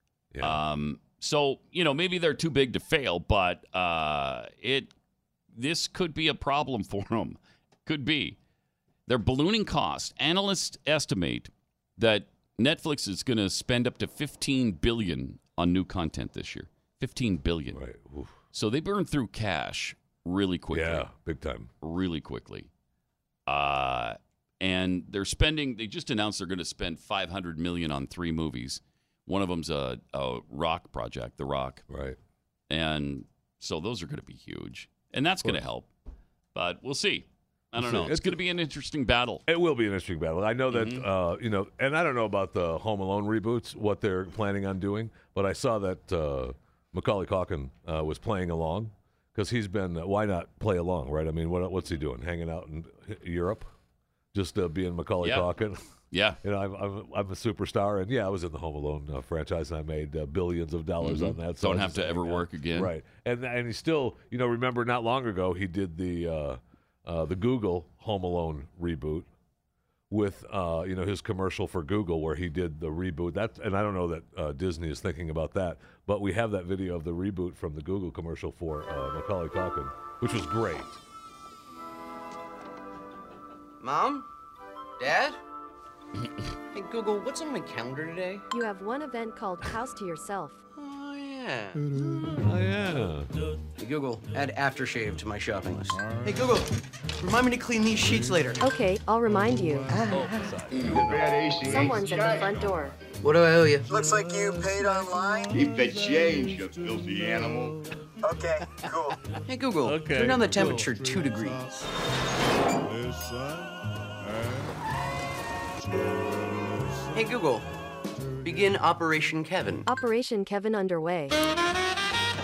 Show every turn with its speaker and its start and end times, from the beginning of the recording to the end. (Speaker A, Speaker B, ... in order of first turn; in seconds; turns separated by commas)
Speaker A: 0.3-0.6, Speaker B: 0.4-4.9, Speaker B: 5.5-8.4, Speaker B: 9.1-17.8, Speaker A: 17.7-18.4, Speaker B: 18.5-21.1, Speaker A: 20.7-21.7, Speaker B: 21.8-22.7, Speaker B: 23.5-31.8, Speaker A: 31.9-32.2, Speaker B: 32.7-35.9, Speaker B: 36.5-39.4, Speaker A: 37.8-38.4, Speaker A: 39.5-53.7, Speaker B: 40.7-41.0, Speaker A: 54.3-55.8, Speaker B: 55.2-55.5, Speaker B: 56.1-56.4, Speaker A: 56.4-69.3, Speaker B: 61.0-62.9, Speaker A: 70.1-81.0, Speaker C: 83.8-84.2, Speaker C: 85.0-85.4, Speaker C: 86.7-88.5, Speaker D: 88.5-90.6, Speaker C: 90.8-91.8, Speaker A: 92.4-93.3, Speaker C: 93.8-98.6, Speaker D: 98.6-99.9, Speaker C: 99.9-102.4, Speaker A: 100.1-101.4, Speaker D: 101.6-103.0, Speaker C: 103.1-103.9, Speaker E: 103.9-105.5, Speaker C: 105.5-107.8, Speaker E: 108.2-109.2, Speaker C: 109.5-111.8, Speaker A: 109.8-110.8, Speaker C: 117.1-117.7, Speaker C: 118.4-119.8, Speaker D: 119.9-121.3